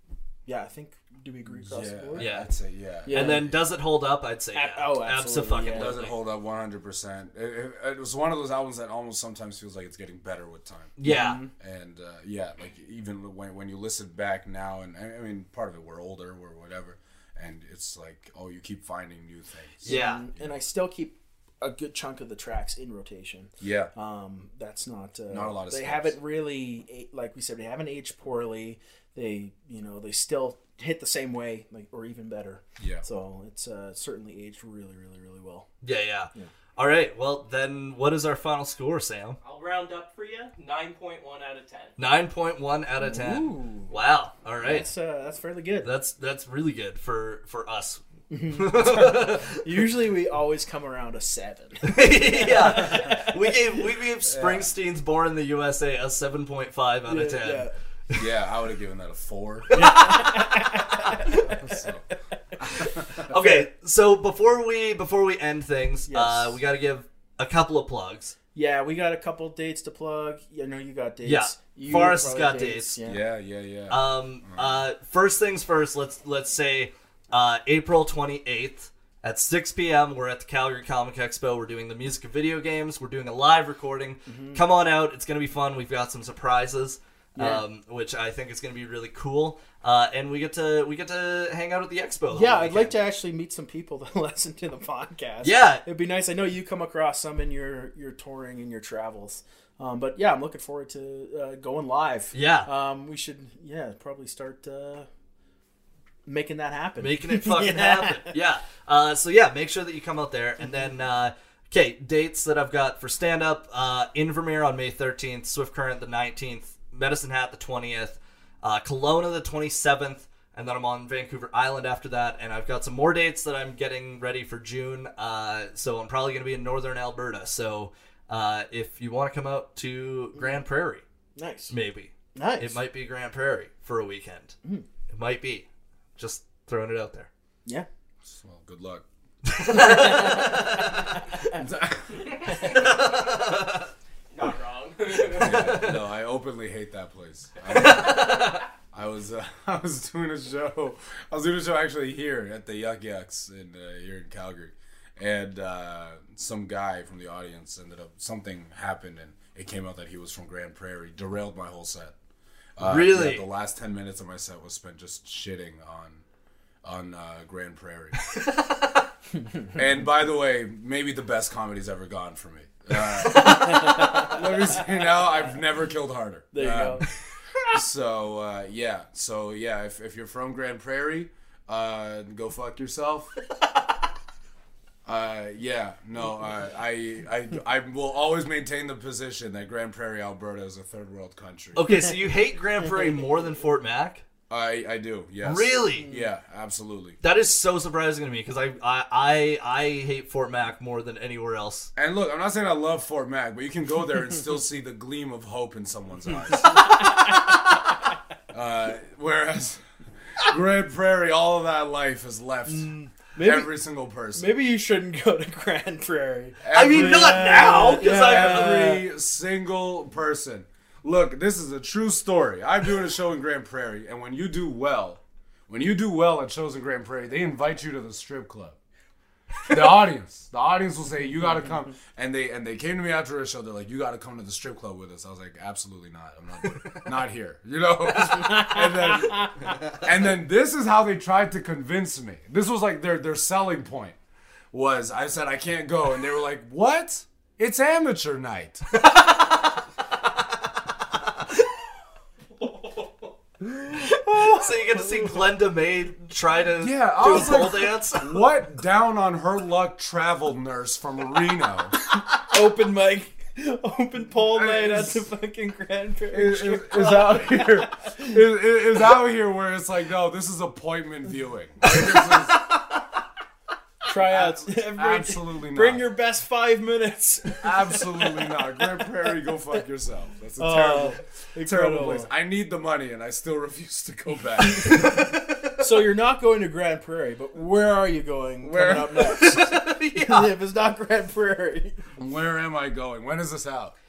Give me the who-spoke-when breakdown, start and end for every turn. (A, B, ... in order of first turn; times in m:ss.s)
0:00.4-0:02.3 A
0:01.6-0:03.6 B
0:02.2-0:02.5 C
0:03.1-0:03.5 A
0:03.1-0:06.1 C
0:04.5-0:06.0 A
0:05.7-0:11.0 B
0:11.0-0:11.4 C
0:11.0-0:11.5 A
0:11.5-0:20.5 B
0:19.8-0:35.7 A
0:19.8-0:20.2 C
0:23.6-0:23.9 B
0:25.3-0:26.2 B
0:32.8-0:33.0 B
0:35.8-0:39.4 C
0:39.4-0:42.0 D
0:42.0-0:44.9 C
0:43.0-0:43.9 A
0:44.6-0:45.9 A
0:45.8-0:49.6 C
0:48.3-0:53.8 A
0:51.8-0:58.2 C
0:54.2-0:54.7 B
0:57.1-0:57.7 A
0:58.1-0:59.9 B
0:59.7-1:01.6 C
0:59.7-1:01.8 A
1:01.3-1:02.0 B
1:02.7-1:08.3 C
1:02.7-1:03.3 B
1:03.3-1:03.7 A
1:06.1-1:06.6 A
1:08.5-1:13.2 A
1:11.2-1:12.9 C
1:13.0-1:14.8 B
1:13.9-1:33.0 C
1:24.3-1:24.6 A
1:27.4-1:27.6 A
1:32.3-1:45.1 A
1:35.4-1:35.8 C
1:42.3-1:42.7 C
1:46.2-1:48.3 A
1:47.0-2:11.0 C
1:50.6-1:50.9 A
2:11.4-2:11.7 A
2:11.7-2:14.6 C
2:12.3-2:12.8 A
2:15.1-2:17.3 C
2:18.2-2:19.0 B
2:19.4-2:21.4 C
2:19.7-2:21.4 A
2:21.5-2:22.7 B
2:22.2-2:23.3 D
2:22.5-2:23.9 C
2:24.3-2:25.9 D
2:25.3-2:42.1 B
2:25.4-2:26.0 C
2:27.7-2:28.6 C
2:42.8-2:46.2 B
2:42.8-2:43.4 C
2:46.8-2:48.2 B
2:48.3-2:48.9 C
2:49.7-2:57.0 B
2:53.3-2:54.3 C
2:56.5-2:57.0 A
2:57.7-3:03.3 B
3:05.0-3:11.8 B
3:11.8-3:14.2 C
3:14.5-3:17.2 B
3:15.4-3:16.1 C
3:16.0-3:16.3 A
3:17.2-3:21.9 C
3:22.0-3:27.1 B
3:26.5-3:27.4 A
3:28.5-3:29.8 B
3:30.4-3:34.5 B
3:32.7-3:33.7 A
3:34.3-3:39.0 A
3:36.6-3:37.4 B
3:36.7-3:39.0 C
3:38.1-3:48.8 B
3:49.7-4:04.2 B
3:56.7-3:57.0 C
3:58.2-3:59.8 A
4:04.7-4:08.8 B
4:08.9-4:09.8 C
4:13.6-4:15.4 A
4:13.9-4:18.4 C
4:16.8-4:21.9 B
4:17.2-4:17.7 A
4:22.4-4:28.4 A
4:24.4-4:25.3 B
4:26.3-4:32.6 B
4:31.8-4:32.8 A
4:34.0-4:39.7 A
4:34.1-4:36.0 B
4:37.6-4:45.2 B
4:40.6-4:42.3 A
4:44.6-4:45.2 A
4:44.8-4:45.8 C
4:45.8-4:52.0 A
4:48.6-4:49.3 B
4:49.2-4:50.5 C
4:52.2-4:53.9 B